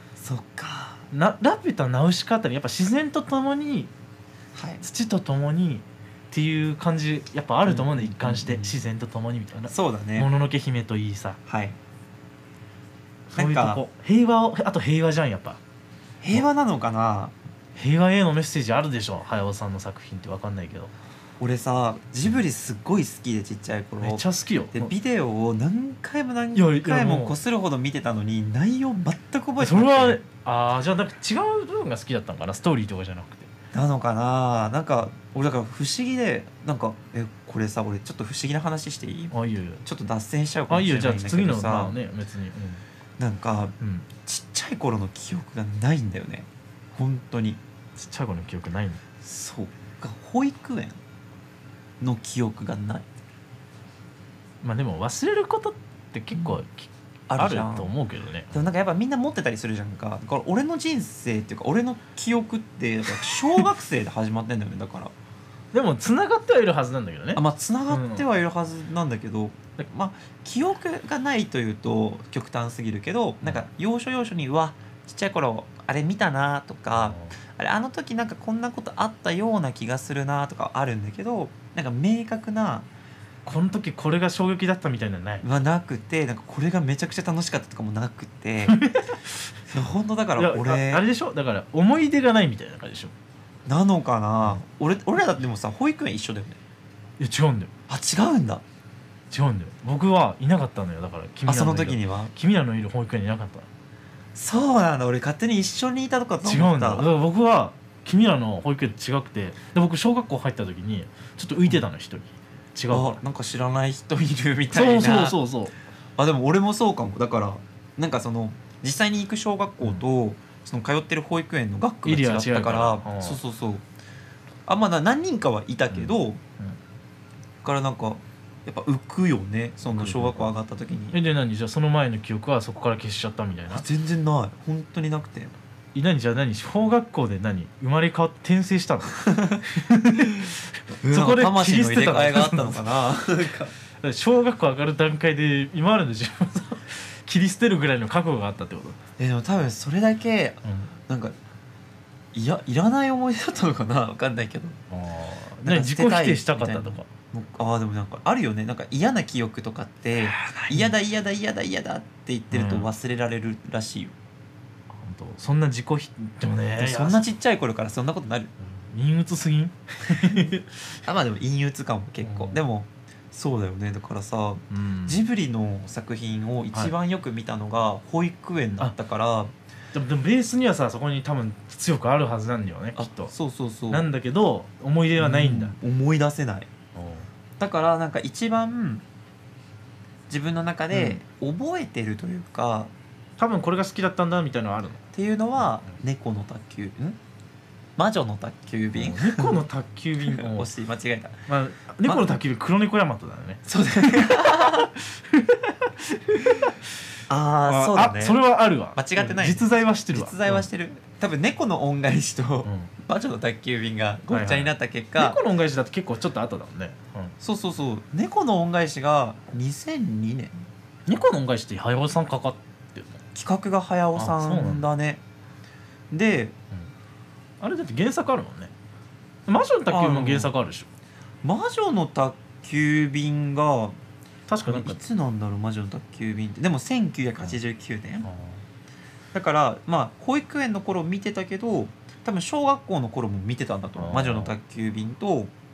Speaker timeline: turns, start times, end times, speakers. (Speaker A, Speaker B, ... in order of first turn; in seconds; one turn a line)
Speaker A: 0.2-1.0
Speaker B: 1.1-3.9
Speaker A: 4.5-4.8
Speaker B: 4.8-11.4
Speaker A: 7.6-8.8
Speaker A: 9.7-10.3
Speaker A: 11.5-11.8
Speaker B: 13.3-15.6
Speaker A: 13.3-13.8
Speaker A: 16.2-17.3
Speaker B: 17.8-20.9
Speaker A: 21.4-30.2
Speaker B: 24.0-24.9
Speaker B: 26.5-27.3
Speaker B: 29.6-33.5
Speaker A: 33.7-39.3
Speaker B: 39.3-39.8
Speaker A: 39.8-42.0
Speaker B: 40.7-42.8
Speaker A: 43.2-47.6
Speaker B: 43.8-44.1
Speaker B: 48.0-49.0
Speaker A: 49.2-51.0
Speaker A: 52.0-53.0
Speaker B: 54.6-58.5
Speaker A: 56.3-56.6
Speaker A: 57.3-57.9
Speaker A: 58.5-65.1
Speaker B: 65.7-68.2
Speaker A: 67.3-82.9
Speaker B: 77.0-77.3
Speaker B: 83.5-85.4
Speaker A: 85.4-88.8
Speaker B: 88.7-89.3
Speaker A: 89.7-91.0
Speaker B: 90.4-93.1
Speaker A: 93.7-96.6
Speaker B: 97.2-97.7
Speaker A: 97.9-98.6
Speaker B: 99.3-103.7
Speaker A: 101.5-102.3
Speaker A: 104.3-107.1
Speaker B: 106.4-113.2
Speaker A: 112.9-115.4
Speaker B: 114.7-115.7
Speaker A: 116.2-123.8
Speaker B: 122.0-123.4
Speaker A: 124.7-126.4
Speaker B: 125.9-126.8
Speaker A: 127.6-131.2
Speaker B: 129.8-130.5
Speaker B: 131.1-133.8
Speaker A: 133.7-135.5
Speaker B: 135.9-142.8
Speaker A: 139.2-139.6
Speaker A: 141.0-143.7
Speaker B: 144.0-149.0
Speaker A: 149.2-151.3
Speaker B: 150.6-150.9
Speaker A: 152.3-154.8
Speaker B: 154.9-157.1
Speaker A: 155.6-164.1
Speaker B: 160.2-160.9
Speaker B: 162.5-162.9
Speaker B: 164.9-167.3
Speaker A: 166.8-168.5
Speaker B: 168.6-170.8
Speaker A: 171.1-179.5
Speaker B: 172.2-172.6
Speaker B: 174.7-175.2
Speaker B: 179.9-183.3
Speaker A: 183.0-184.1
Speaker B: 183.9-185.7
Speaker A: 185.2-186.7
Speaker B: 186.9-187.3
Speaker A: 187.6-189.0
Speaker A: 190.3-192.9
Speaker B: 190.9-191.2
Speaker B: 193.4-195.0
Speaker A: 195.1-197.2
Speaker A: 198.0-199.6
Speaker B: 198.9-200.7
Speaker A: 200.2-201.4
Speaker B: 201.5-206.8
Speaker A: 202.0-202.3
Speaker A: 203.7-204.9
Speaker A: 207.3-208.4
Speaker B: 207.7-210.7
Speaker A: 208.9-215.4
Speaker B: 212.6-212.9
Speaker B: 214.3-217.3
Speaker A: 217.4-220.7
Speaker B: 221.1-223.2
Speaker A: 223.3-225.2
Speaker B: 224.1-224.9
Speaker A: 226.1-226.6
Speaker B: 227.6-228.7
Speaker B: 229.5-230.9
Speaker A: 229.9-230.5
Speaker A: 231.4-233.9
Speaker B: 234.5-235.0
Speaker A: 234.7-238.3
Speaker B: 238.2-238.6
Speaker A: 239.3-245.5
Speaker B: 243.9-244.5